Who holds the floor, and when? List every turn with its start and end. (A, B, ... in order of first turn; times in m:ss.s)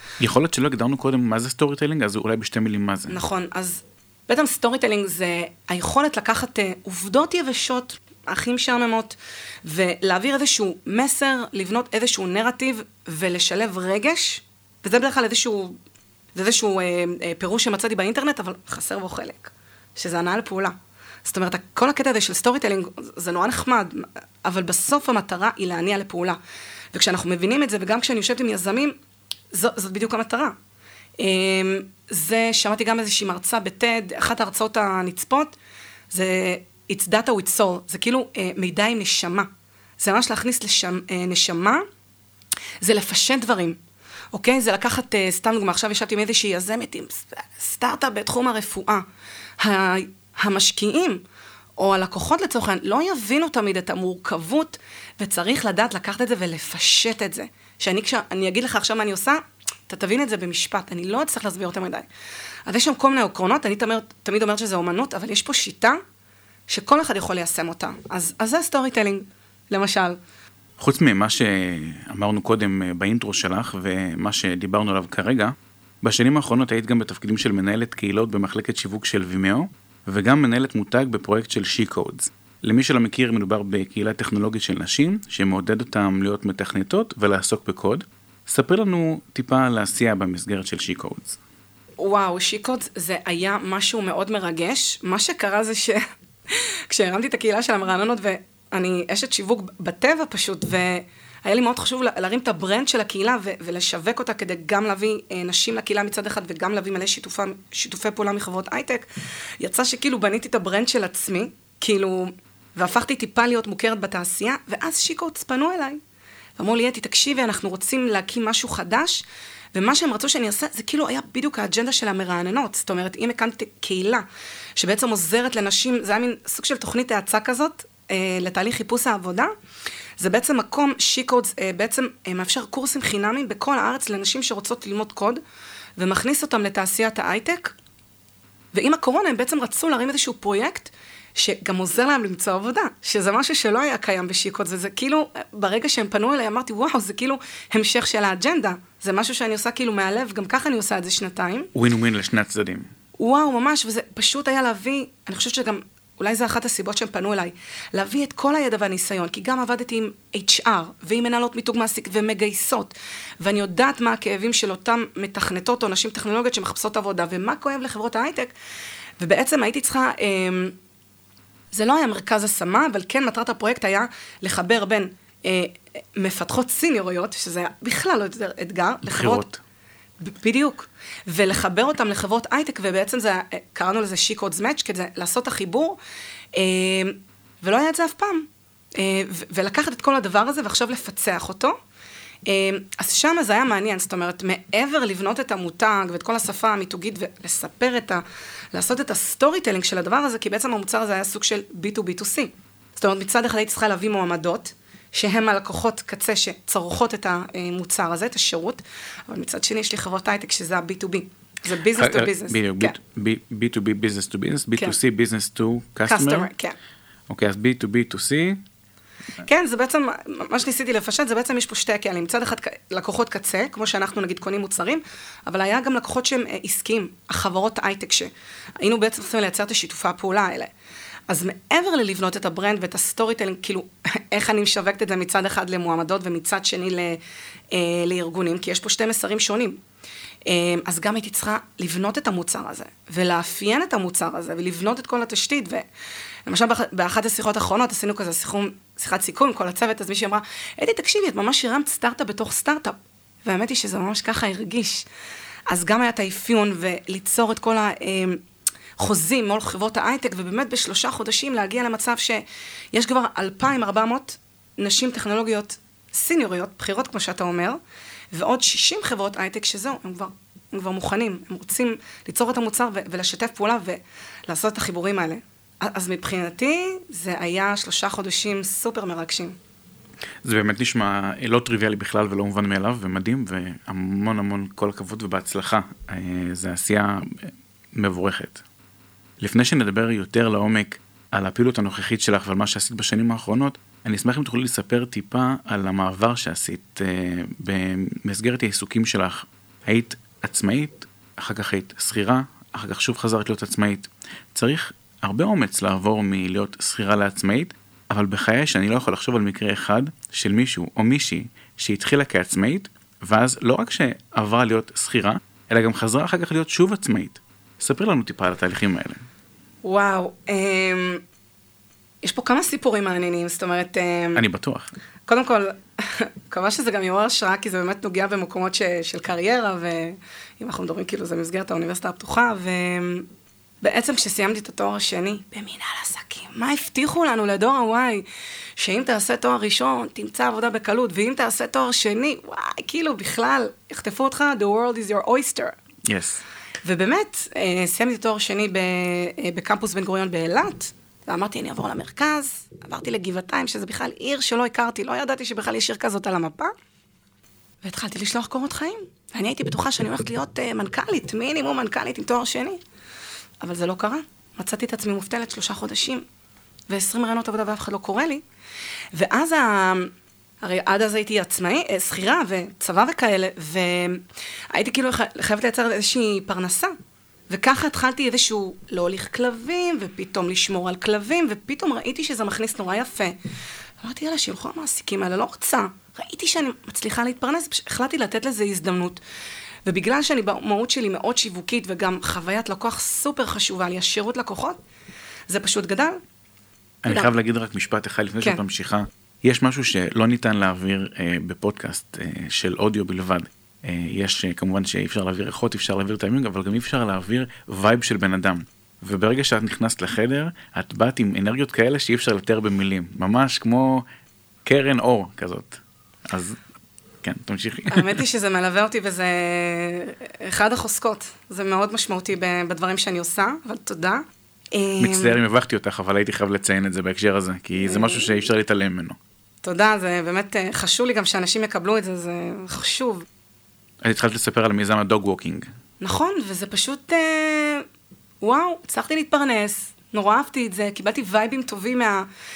0:00.2-0:03.2 A
0:03.1-0:15.8 B
0:16.4-0:26.4 B
0:26.9-0:29.0 B
0:29.5-0:30.5 B
0:31.2-0:35.6 B
0:36.1-0:39.5 B
0:40.0-0:41.8 B
0:42.8-0:43.8 B
0:44.3-0:49.0 B
0:49.6-0:51.2 B
0:51.8-1:02.1 B
1:02.7-1:06.0 B
1:06.7-1:10.2 B
1:10.8-1:31.4 A
1:32.0-1:49.1 B
1:49.6-1:56.0 B
1:56.6-2:04.2 B
2:04.8-2:09.5 B
2:10.2-2:15.4 B
2:16.0-2:17.8 B
2:18.7-2:31.7 B
2:31.8-2:32.9 A
2:33.2-2:48.5 B
2:49.2-2:50.8 B
2:51.7-2:59.5 B
2:59.1-2:59.6 A
3:00.2-3:06.0 B
3:06.5-3:11.8 B
3:12.5-3:33.0 B
3:31.9-3:36.5 A
3:36.1-3:36.8 B
3:37.3-3:38.6 A
3:39.4-3:50.7 B
3:51.3-3:57.2 B
3:57.7-3:59.8 B
4:00.5-4:05.9 B
4:06.5-4:15.1 B
4:15.7-4:18.4 B
4:19.0-4:27.8 B
4:28.3-4:39.6 B
4:40.4-4:48.6 A
4:49.4-5:19.2 A
5:19.8-5:21.2 B
5:22.2-5:24.4 B
5:24.4-5:24.9 A
5:25.2-5:33.3 B
5:33.8-5:38.2 B
5:38.8-5:45.8 B
5:46.1-5:46.4 A
5:46.8-5:56.7 B
5:57.8-6:02.8 B
6:03.6-6:06.2 B
6:06.9-6:08.4 B
6:09.1-6:16.9 B
6:17.5-6:23.4 B
6:24.0-6:29.2 B
6:29.9-6:34.8 B
6:35.5-6:36.2 B
6:37.0-6:54.0 A
6:54.6-6:56.6 A
6:57.2-6:58.1 A
6:57.9-7:05.4 B
7:05.0-7:09.2 A
7:07.8-7:08.3 B
7:09.6-7:13.2 B
7:14.0-7:15.6 A
7:16.0-7:17.9 B
7:18.4-7:22.3 B